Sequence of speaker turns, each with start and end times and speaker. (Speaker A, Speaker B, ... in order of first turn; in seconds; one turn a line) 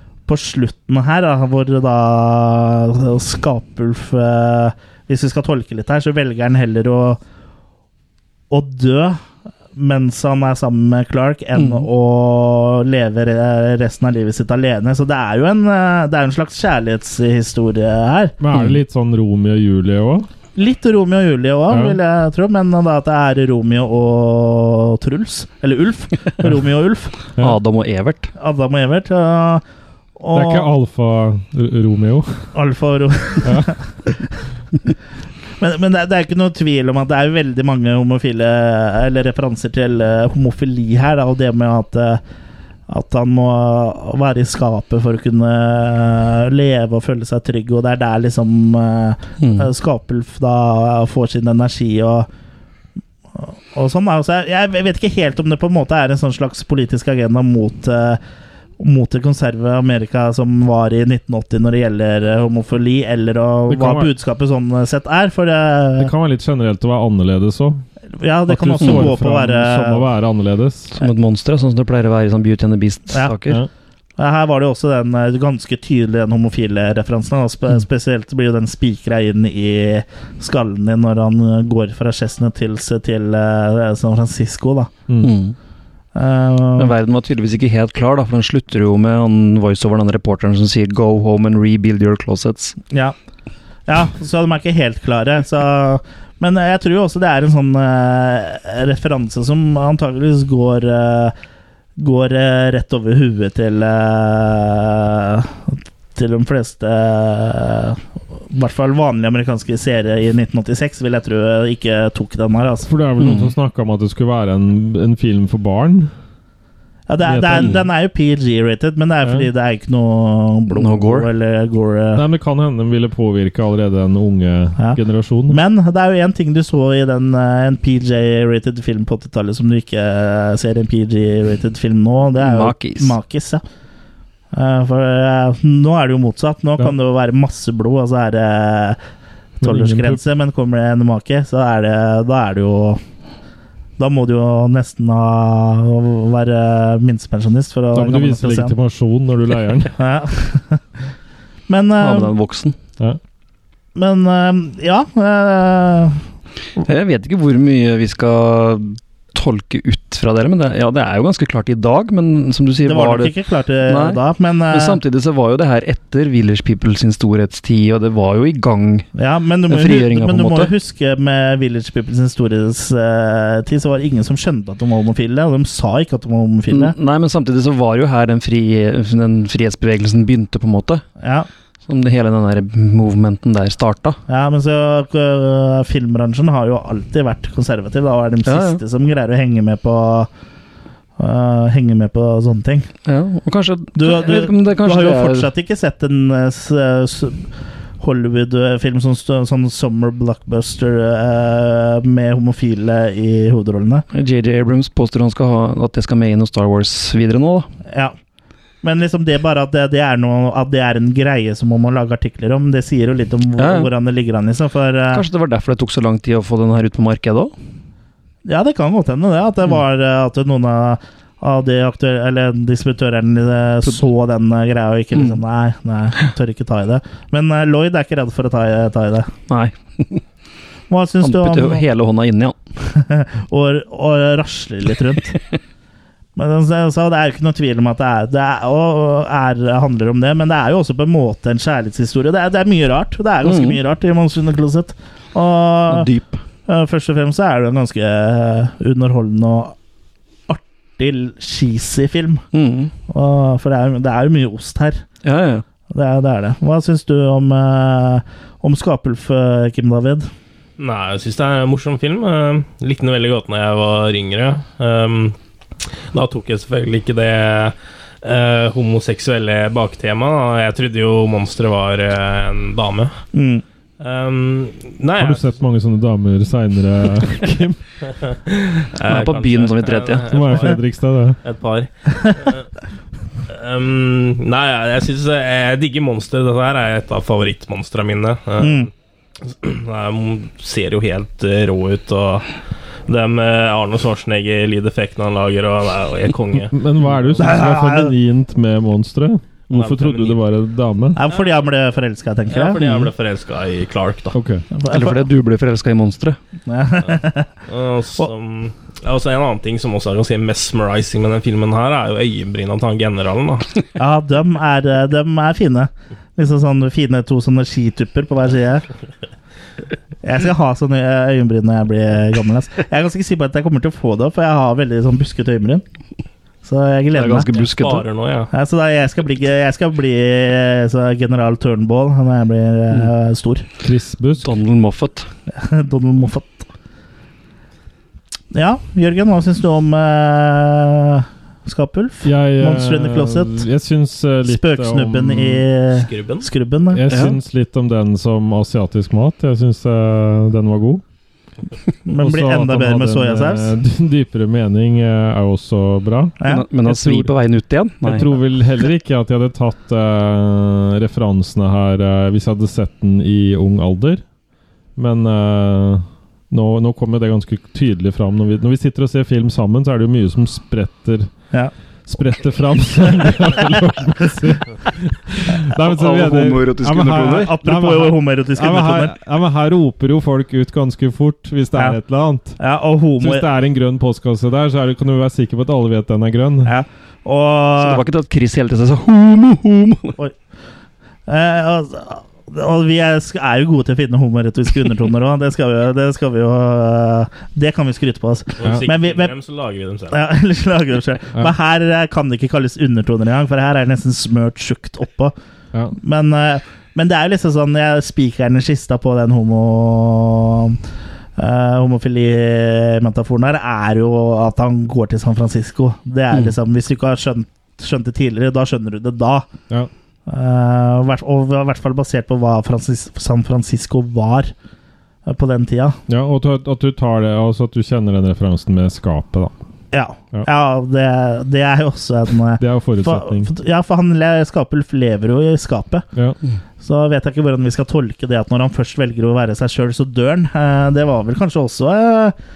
Speaker A: 0.3-7.2
Speaker A: 8.5-9.2
Speaker A: 9.8-18.4
Speaker B: 11.6-11.9
Speaker C: 18.4-20.3
Speaker B: 18.5-18.8
Speaker A: 20.6-27.2
Speaker C: 21.7-22.0
Speaker B: 27.4-28.3
Speaker A: 28.4-29.6
Speaker A: 30.2-30.7
Speaker C: 30.3-32.5
Speaker A: 32.5-34.2
Speaker C: 33.4-33.7
Speaker A: 35.6-42.2
Speaker A: 42.9-52.3
Speaker B: 49.4-49.7
Speaker A: 53.4-58.2
Speaker A: 58.8-66.1
Speaker C: 63.7-64.1
Speaker C: 66.0-67.8
Speaker A: 68.2-70.1
Speaker C: 68.5-71.0
Speaker B: 68.8-69.1
Speaker B: 71.0-73.6
Speaker A: 73.1-73.4
Speaker A: 74.2-84.9
Speaker C: 85.1-85.3
Speaker B: 85.2-85.5
Speaker A: 86.2-86.9
Speaker B: 86.8-92.8
Speaker A: 93.9-101.3
Speaker A: 102.0-108.0
Speaker A: 108.5-112.9
Speaker C: 112.9-116.1
Speaker B: 113.2-113.5
Speaker A: 117.1-122.2
Speaker C: 117.2-117.8
Speaker B: 120.7-121.3
Speaker C: 122.2-125.6
Speaker A: 124.8-133.6
Speaker B: 132.4-133.2
Speaker A: 134.5-139.0
Speaker C: 139.6-140.2
Speaker A: 139.6-143.0
Speaker A: 144.0-148.7
Speaker C: 147.9-149.9
Speaker A: 150.0-150.8
Speaker A: 151.7-152.3
Speaker B: 152.0-152.8
Speaker A: 154.0-156.2
Speaker B: 156.8-163.3
Speaker A: 162.8-165.0
Speaker B: 163.9-169.1
Speaker A: 169.2-176.9
Speaker B: 169.7-170.7
Speaker B: 176.7-181.0
Speaker A: 181.2-181.5
Speaker B: 181.9-184.2
Speaker A: 184.3-190.3
Speaker B: 188.5-188.8
Speaker A: 191.2-192.9
Speaker B: 193.1-195.5
Speaker A: 194.0-197.5
Speaker A: 198.0-204.1
Speaker B: 204.1-207.7
Speaker A: 208.8-215.2
Speaker B: 213.6-213.9
Speaker B: 215.1-217.5
Speaker A: 218.4-229.3
Speaker B: 229.5-230.2
Speaker A: 230.9-231.8
Speaker B: 231.2-232.6
Speaker A: 232.8-235.4
Speaker A: 236.4-246.1
Speaker B: 243.4-243.8
Speaker B: 245.9-246.4
Speaker A: 246.7-249.8
Speaker A: 250.5-252.4
Speaker B: 252.5-252.9
Speaker A: 253.1-255.0
Speaker B: 255.2-255.6
Speaker A: 255.9-260.3
Speaker D: 260.8-265.4
Speaker D: 266.1-273.2
Speaker A: 273.3-273.6
Speaker D: 274.0-275.5
Speaker C: 275.2-277.8
Speaker D: 278.1-280.8
Speaker B: 278.9-280.4
Speaker C: 280.3-281.4
Speaker D: 281.4-282.7
Speaker D: 283.5-288.9
Speaker A: 288.6-288.9
Speaker D: 289.4-292.6
Speaker D: 293.1-296.7
Speaker C: 296.7-301.2
Speaker A: 297.4-298.1
Speaker D: 299.7-300.4
Speaker A: 301.1-303.1
Speaker D: 301.3-301.6
Speaker D: 302.5-304.4
Speaker C: 304.3-304.6
Speaker A: 304.7-305.2
Speaker B: 304.9-306.4
Speaker A: 306.7-307.5
Speaker D: 307.1-313.8
Speaker A: 314.0-318.9
Speaker A: 320.2-325.8
Speaker A: 326.6-327.5
Speaker B: 327.1-328.1
Speaker D: 327.6-328.5
Speaker A: 328.5-333.7
Speaker C: 333.8-334.5
Speaker B: 334.4-335.3
Speaker A: 335.5-336.7
Speaker A: 338.5-343.6
Speaker C: 342.2-345.7
Speaker A: 344.4-347.1
Speaker D: 345.9-346.5
Speaker C: 346.9-351.0
Speaker B: 347.1-347.4
Speaker A: 352.1-353.7
Speaker C: 352.1-357.3
Speaker A: 356.4-356.7
Speaker B: 356.4-358.3
Speaker C: 358.0-364.2
Speaker C: 365.0-371.3
Speaker C: 372.1-382.6
Speaker B: 375.8-377.5
Speaker A: 377.4-379.1
Speaker A: 382.6-383.5
Speaker C: 383.2-386.7
Speaker A: 386.6-388.0
Speaker B: 387.8-390.2
Speaker A: 391.3-399.3
Speaker D: 398.6-400.2
Speaker A: 400.1-405.4
Speaker A: 406.0-410.8
Speaker A: 411.4-419.5
Speaker A: 420.3-424.5
Speaker A: 425.3-426.0
Speaker C: 426.1-429.5
Speaker A: 429.9-436.1
Speaker C: 432.6-433.5
Speaker A: 436.8-442.4